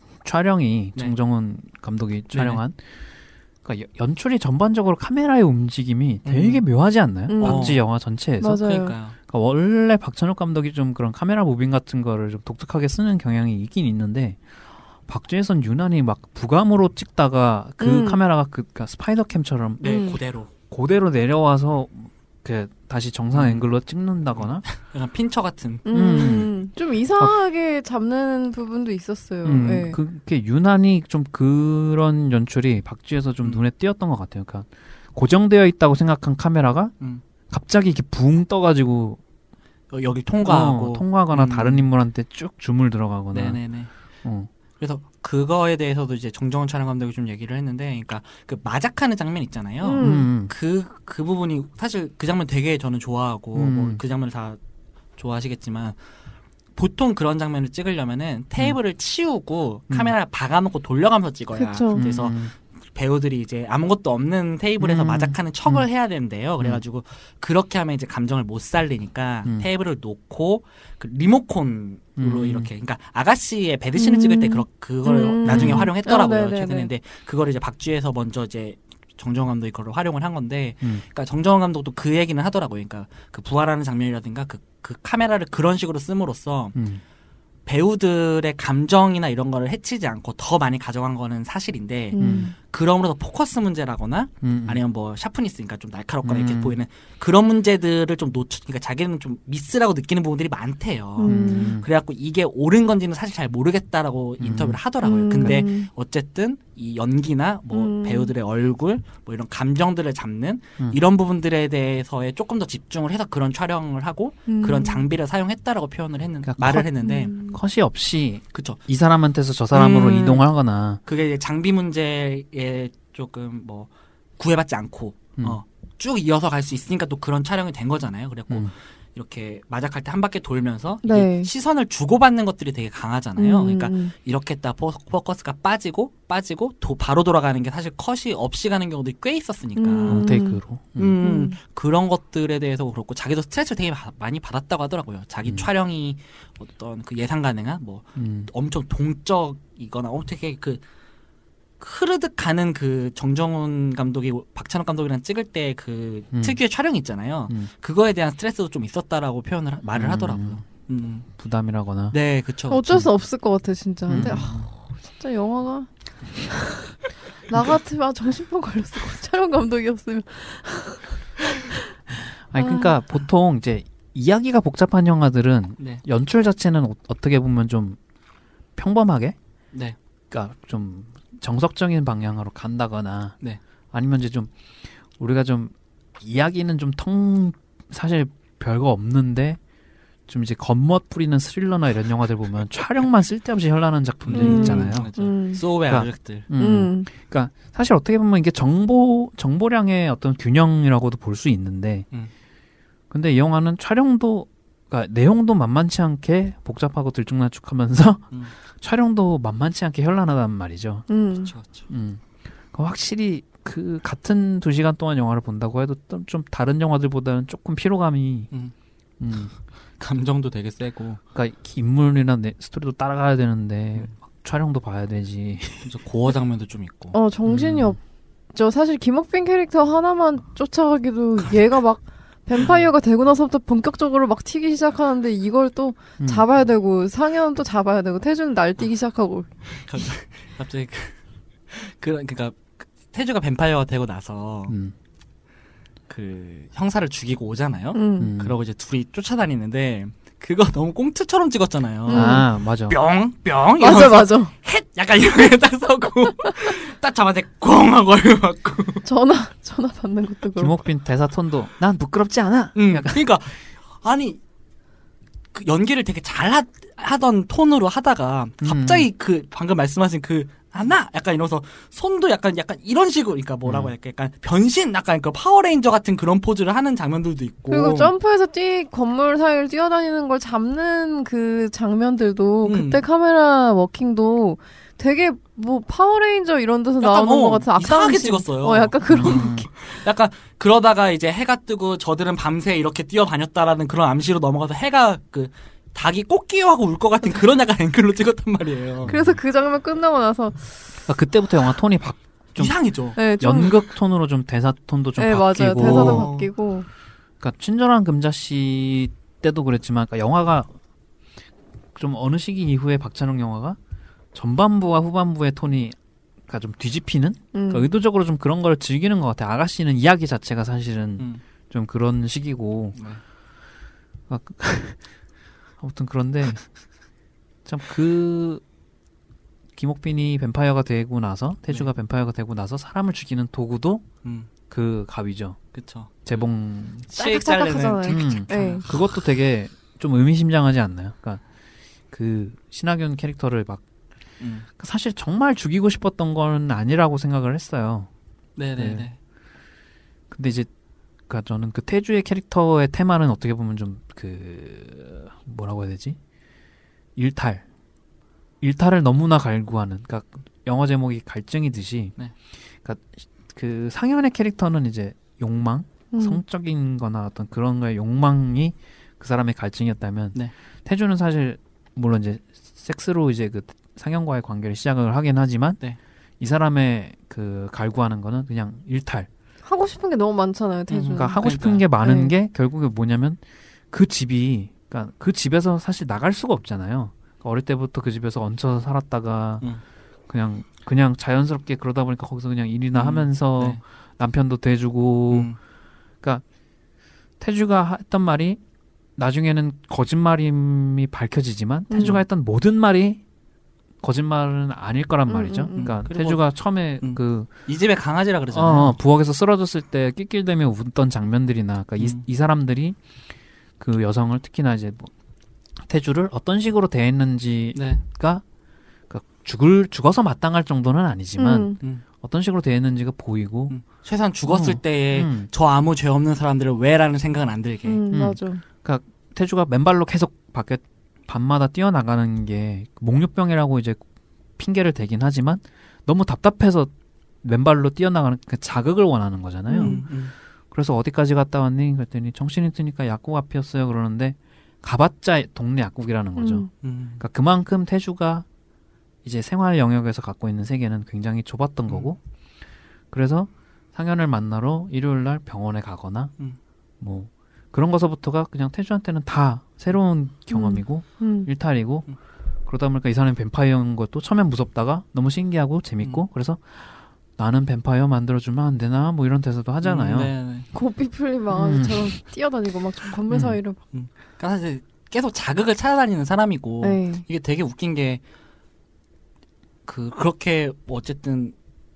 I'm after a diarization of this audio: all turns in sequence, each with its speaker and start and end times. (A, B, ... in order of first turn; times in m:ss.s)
0:00.2-0:02.8 A
0:02.3-0:02.6 B
0:03.6-0:08.6 A
0:06.2-0:06.6 B
0:07.3-0:07.7 C
0:07.4-0:07.8 B
0:08.4-0:08.9 C
0:08.6-0:09.2 B
0:09.3-0:14.4 A
0:15.1-0:20.0 A
0:17.8-0:18.2 C
0:19.8-0:20.5 B
0:19.8-0:20.2 C
0:20.7-0:24.6 A
0:23.3-0:23.6 B
0:24.4-0:26.4 B
0:25.8-0:30.0 C
0:25.9-0:26.6 A
0:29.4-0:36.9 A
0:37.5-0:39.2 A
0:39.9-0:41.8 B
0:40.4-0:43.6 A
0:43.3-0:43.9 B
0:44.2-0:44.5 A
0:44.8-0:54.6 B
0:49.8-0:50.3 C
0:50.0-0:50.5 A
0:53.5-0:54.0 A
0:55.2-0:56.0 B
0:56.8-1:26.7 B
1:01.5-1:02.0 C
1:01.9-1:02.5 A
1:04.8-1:05.8 A
1:12.2-1:12.7 A
1:14.0-1:16.9 C
1:15.5-1:15.9 A
1:26.7-1:27.0 A
1:27.6-1:57.4 B
1:32.1-1:32.5 C
1:32.2-1:32.5 A
1:34.4-1:34.8 A
1:36.2-1:36.8 A
1:41.2-1:41.8 C
1:41.3-1:41.9 A
1:44.4-1:44.8 A
1:45.0-1:45.9 C
1:47.7-1:48.3 C
1:54.5-1:55.0 C
1:56.4-1:56.9 A
1:57.0-1:57.6 C
1:57.4-2:01.0 A
1:58.5-1:58.8 B
1:59.7-2:00.4 B
2:01.0-2:20.3 B
2:11.0-2:11.5 C
2:13.4-2:14.1 C
2:19.8-2:20.6 C
2:20.1-2:21.2 A
2:21.0-2:30.8 B
2:21.2-2:21.6 C
2:28.2-2:28.5 A
2:31.8-2:41.3 B
2:36.3-2:36.6 A
2:39.9-2:40.6 A
2:41.4-2:42.2 A
2:42.1-2:43.0 B
2:42.7-2:45.9 C
2:44.1-2:44.7 A
2:44.2-2:44.5 B
2:46.5-2:51.8 C
2:52.5-2:58.0 A
2:52.6-2:52.9 C
2:58.8-2:59.4 A
2:59.7-3:00.0 B
3:00.3-3:03.4 A
3:03.9-3:04.5 A
3:05.2-3:09.6 A
3:10.3-3:15.1 A
3:14.2-3:16.5 B
3:14.3-3:15.6 C
3:15.9-3:22.1 A
3:16.6-3:17.1 C
3:23.1-3:31.1 A
3:31.1-3:31.5 C
3:31.4-3:31.9 B
3:31.9-3:38.5 A
3:39.2-3:39.5 A
3:40.0-3:41.2 B
3:41.3-3:45.9 A
3:45.8-3:47.2 B
3:47.1-3:48.0 C
3:47.5-3:48.0 A
3:48.5-3:59.8 C
3:56.2-3:56.4 A
3:59.7-4:04.7 B
4:04.7-4:04.9 A
4:06.1-4:19.0 B
4:07.9-4:08.3 C
4:08.2-4:08.5 A
4:12.1-4:12.4 C
4:12.1-4:13.0 A
4:13.8-4:14.5 C
4:19.0-4:20.8 C
4:20.6-4:23.2 A
4:22.7-4:24.4 B
4:25.5-4:38.1 B
4:28.6-4:29.1 A
4:33.6-4:33.9 A
4:37.7-4:49.9 C
4:42.6-4:43.0 B
4:47.0-4:59.1 B
4:49.1-4:49.6 A
4:59.0-4:59.4 A
4:59.1-5:00.8 C
5:01.1-5:06.3 A
5:02.6-5:03.2 B
5:03.2-5:03.7 C
5:05.2-5:06.9 C
5:05.8-5:06.5 B
5:07.4-5:10.7 A
5:11.9-5:13.8 A
5:14.3-5:23.0 A
5:17.5-5:17.9 C
5:23.0-5:23.2 B
5:24.3-5:25.1 A
5:25.8-5:26.7 A
5:27.6-5:28.6 A
5:29.8-5:34.1 A
5:34.2-5:34.5 B
5:34.7-5:35.6 A
5:35.7-5:36.1 B
5:36.2-5:37.1 A
5:37.1-5:39.1 B
5:37.1-5:38.9 C
5:38.1-5:41.4 A
5:42.1-5:43.8 A
5:44.4-5:44.7 B
5:44.8-5:48.1 A
5:48.6-5:49.2 B
5:48.8-5:49.0 A
5:50.3-5:50.7 A
5:51.3-5:56.2 A
5:57.2-5:57.6 A
5:58.6-6:02.2 A
6:02.8-6:15.8 A
6:06.1-6:06.4 C
6:16.4-6:19.3 A
6:19.6-6:22.3 C
6:20.9-6:21.8 B
6:21.1-6:29.7 A
6:30.3-6:35.5 A
6:32.9-6:33.8 B
6:35.3-6:35.6 B
6:37.4-6:38.6 A
6:39.2-6:43.2 A
6:41.9-6:42.2 C
6:42.0-6:42.2 B
6:44.0-6:47.5 A
6:45.3-6:45.9 C
6:45.7-6:46.4 B
6:47.0-6:49.0 B
6:48.5-6:53.0 A
6:52.0-6:52.2 B
6:53.8-6:55.1 A
6:55.8-6:58.4 A
6:57.7-6:58.0 B
6:59.1-7:03.8 A
7:01.4-7:01.8 C
7:03.7-7:08.0 B
7:04.4-7:05.5 A
7:07.8-7:08.6 C
7:08.1-7:14.0 A
7:14.6-7:16.9 A
7:17.4-7:20.0 A
7:19.7-7:20.0 C
7:19.8-7:20.3 B
7:20.7-7:26.7 A
7:26.4-7:26.7 C
7:26.8-7:27.2 B
7:27.2-7:28.4 A
7:29.2-7:32.2 A
7:31.9-7:32.1 B
7:33.1-7:36.3 A
7:37.0-7:42.1 A
7:40.5-7:41.5 C
7:42.6-7:50.3 A
7:49.8-7:50.7 B
7:50.7-7:53.8 C
7:51.5-7:52.2 A
7:53.3-7:58.2 B
7:56.8-7:57.2 C
7:59.8-8:01.5 B